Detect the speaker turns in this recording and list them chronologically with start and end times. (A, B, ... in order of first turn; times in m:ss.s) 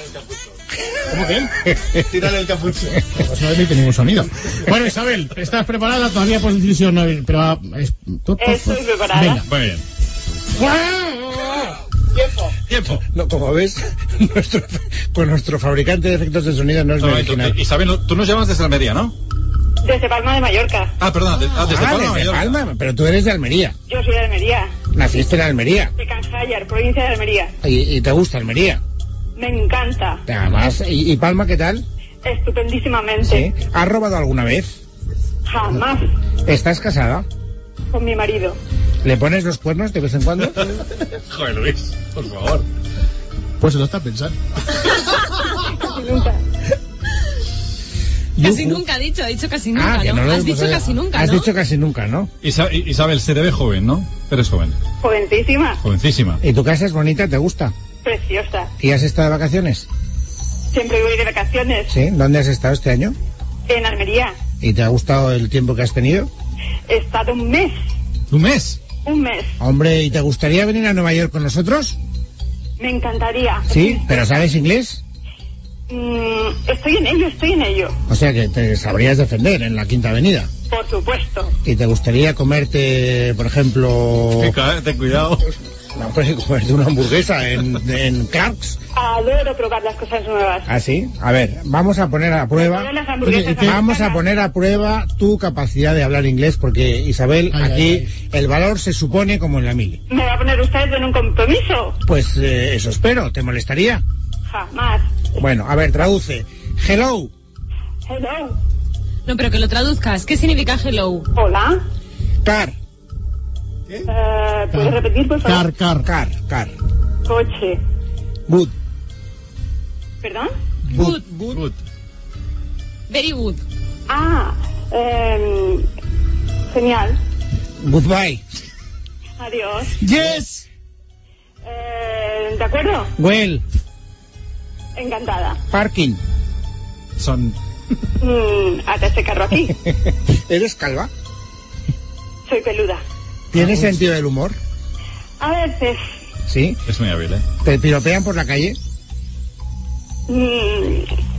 0:01.1-0:01.5 A
0:01.7-0:02.0 B
0:02.4-0:09.5 A
0:08.4-0:09.4 C
0:09.4-0:09.8 D
0:10.6-0:11.7 B
0:12.7-0:13.0 D
0:13.0-0:17.6 B
0:17.0-0:19.1 D
0:19.8-0:20.9 C
0:21.0-0:22.6 D
0:21.6-0:23.8 B
0:23.9-0:24.7 C
0:24.9-0:25.9 B
0:26.0-0:27.5 C
0:27.6-0:28.8 B
0:29.4-0:30.2 C
0:30.3-0:31.8 B
0:32.2-0:33.5 C
0:33.2-0:34.7 B
0:35.5-0:36.0 C
0:36.5-0:37.2 B
0:37.9-0:38.6 C
0:39.0-0:40.8 B
0:41.0-0:42.7 D
0:43.6-0:44.4 A
0:45.7-0:46.4 C
0:48.4-0:48.8 B
0:48.4-0:51.5 E
0:49.7-0:52.3 B
0:52.4-0:54.8 D
0:55.0-0:55.8 C
0:55.8-0:56.4 D
0:56.4-0:57.7 B
0:58.0-0:58.7 C
0:58.8-0:59.9 B
1:00.7-1:01.9 C
1:01.9-1:03.2 B
1:03.7-1:04.4 C
1:04.6-1:06.3 B
1:06.9-1:07.8 C
1:08.3-1:08.8 D
1:09.0-1:09.5 C
1:09.6-1:12.0 B
1:12.8-1:14.2 C
1:13.7-1:15.0 B
1:15.9-1:17.9 C
1:18.1-1:20.5 B
1:20.7-1:21.5 C
1:21.6-1:24.6 B
1:24.4-1:25.5 D
1:26.0-1:28.8 B
1:29.0-1:30.7 C
1:30.7-1:32.9 B
1:32.6-1:34.2 C
1:33.2-1:33.8 A
1:33.6-1:40.0 B
1:37.5-1:38.1 A
1:40.1-1:42.0 C
1:42.1-1:44.0 B
1:44.5-1:45.1 C
1:45.4-1:47.3 B
1:48.1-1:48.6 C
1:49.3-1:51.3 E
1:51.4-1:51.8 C
1:52.4-1:52.7 B
1:54.1-1:55.7 C
1:54.7-1:56.1 A
1:56.0-1:56.7 B
1:57.3-1:57.8 C
1:58.5-1:58.7 B
2:00.2-2:00.5 C
2:00.9-2:01.2 E
2:00.9-2:01.6 B
2:03.1-2:03.6 E
2:04.1-2:05.8 C
2:06.7-2:07.2 C
2:07.8-2:08.4 B
2:09.4-2:10.0 C
2:10.0-2:10.6 A
2:11.7-2:13.1 C
2:13.2-2:13.6 B
2:15.0-2:15.6 C
2:15.7-2:16.2 B
2:17.2-2:17.6 D
2:18.2-2:19.7 C
2:19.9-2:21.1 B
2:22.5-2:23.0 C
2:23.5-2:24.6 B
2:25.4-2:26.0 C
2:26.5-2:26.8 B
2:26.9-2:27.5 D
2:27.6-2:28.8 B
2:30.3-2:31.1 C